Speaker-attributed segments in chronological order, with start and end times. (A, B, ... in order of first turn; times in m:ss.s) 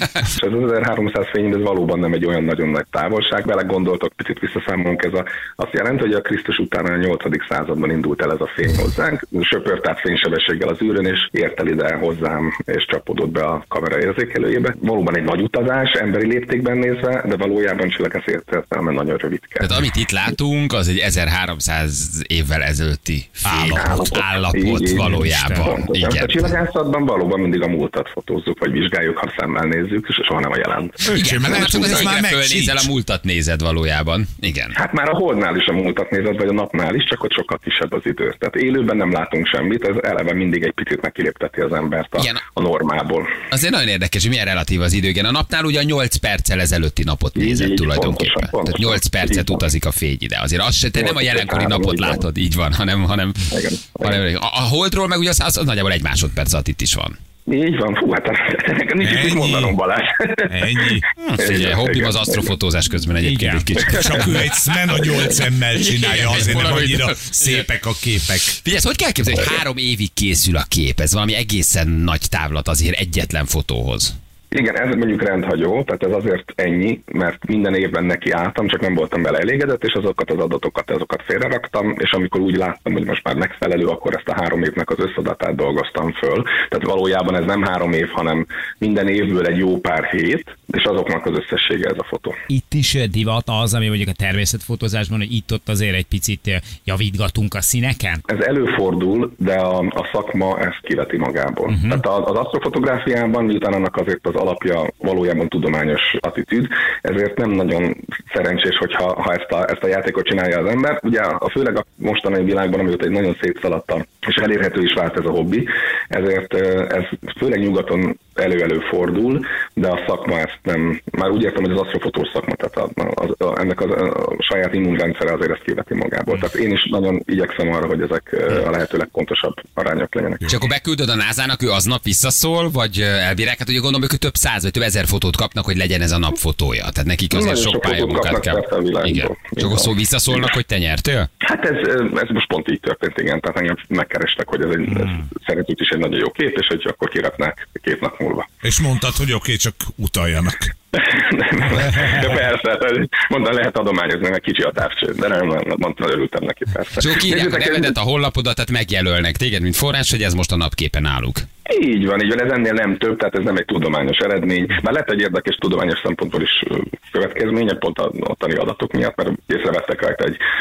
0:00.4-0:19.7 A
0:19.6-0:26.6 B
0:23.4-0:24.2 C
0:23.6-0:32.0 A
0:25.2-0:25.6 D
0:31.0-0:32.9 C
0:31.1-0:34.8 B
0:34.7-0:43.3 A
0:42.2-0:42.4 B
0:43.5-0:57.2 B
0:47.4-0:49.6 A
0:50.9-0:52.2 A
0:53.5-0:54.2 A
0:57.5-1:02.5 A
0:59.0-0:59.8 C
1:00.5-1:01.0 C
1:01.2-1:05.0 B
1:03.2-1:03.7 D
1:03.8-1:08.6 C
1:04.0-1:04.2 A
1:05.7-1:07.7 B
1:08.6-1:14.2 B
1:14.5-1:32.4 A
1:32.5-1:38.2 D
1:38.3-2:10.5 A
1:41.7-1:42.0 D
2:10.5-2:21.3 B
2:17.3-2:20.5 A
2:21.4-2:28.5 A
2:28.6-2:30.7 C
2:31.0-2:37.9 A
2:37.0-2:41.5 B
2:41.7-2:50.4 A